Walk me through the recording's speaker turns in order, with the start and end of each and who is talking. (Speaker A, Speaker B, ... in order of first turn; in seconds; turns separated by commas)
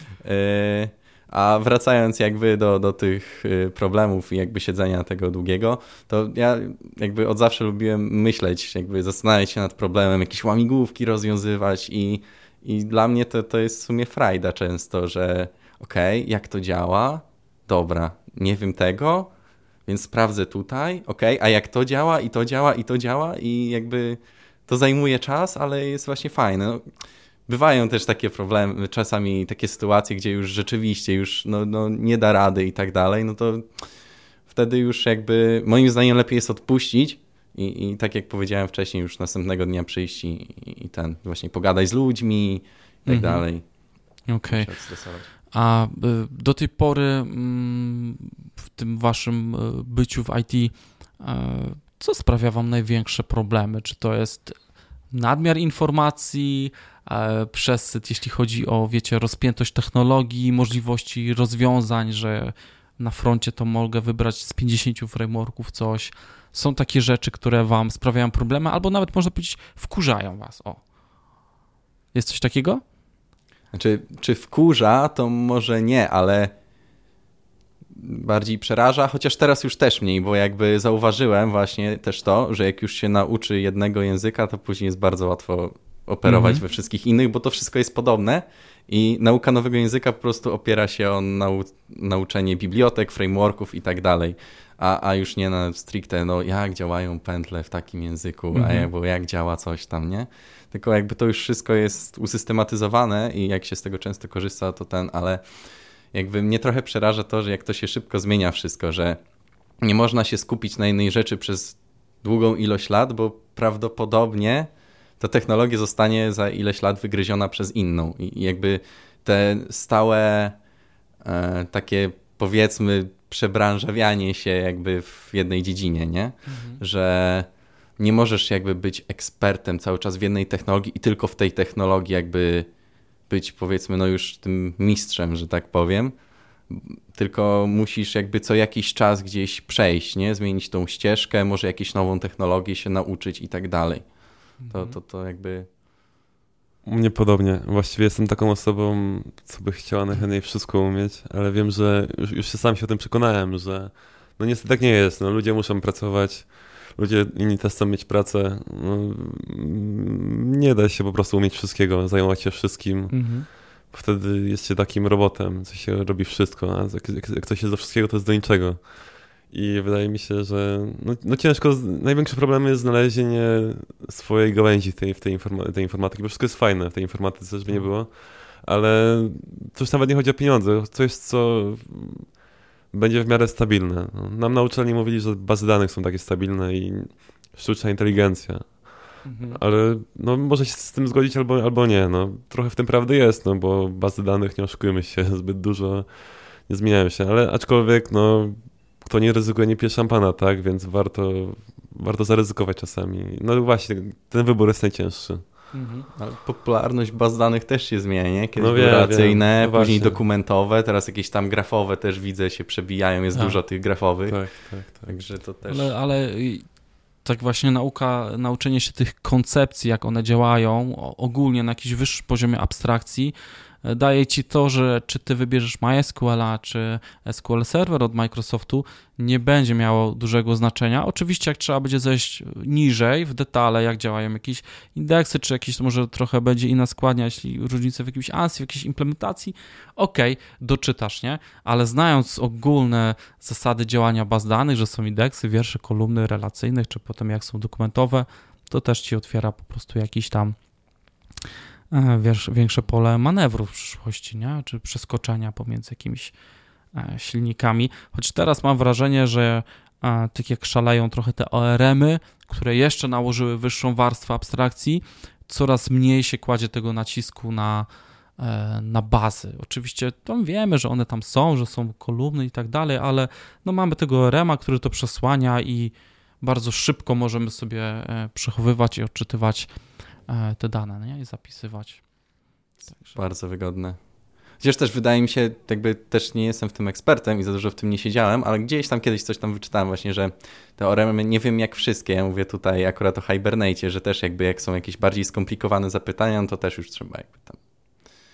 Speaker A: 0.2-19.3, Speaker A: 19.9-26.9, Speaker A: 27.5-33.8, Speaker A: 34.5-45.3, Speaker B: 43.1-43.5, Speaker B: 44.3-44.7, Speaker B: 45.3-70.8, Speaker B: 72.1-72.8, Speaker A: 73.7-76.5, Speaker A: 78.0-105.5, Speaker B: 86.2-86.6, Speaker B: 98.5-98.9, Speaker A: 106.1-109.2, Speaker A: 109.8-120.6, Speaker A: 121.2-132.7, Speaker B: 126.5-126.8, Speaker A: 133.3-136.2, Speaker A: 136.7-145.7, Speaker B: 144.6-145.0, Speaker C: 146.8-182.4, Speaker B: 163.1-163.5, Speaker C: 182.9-205.5, Speaker B: 189.2-189.6, Speaker B: 205.7-206.1, Speaker A: 206.1-215.9, Speaker C: 208.6-210.2, Speaker C: 214.3-215.1, Speaker B: 215.7-250.6, Speaker B: 251.9-256.3, Speaker B: 256.9-282.1, Speaker B: 282.8-283.1, Speaker A: 282.9-297.6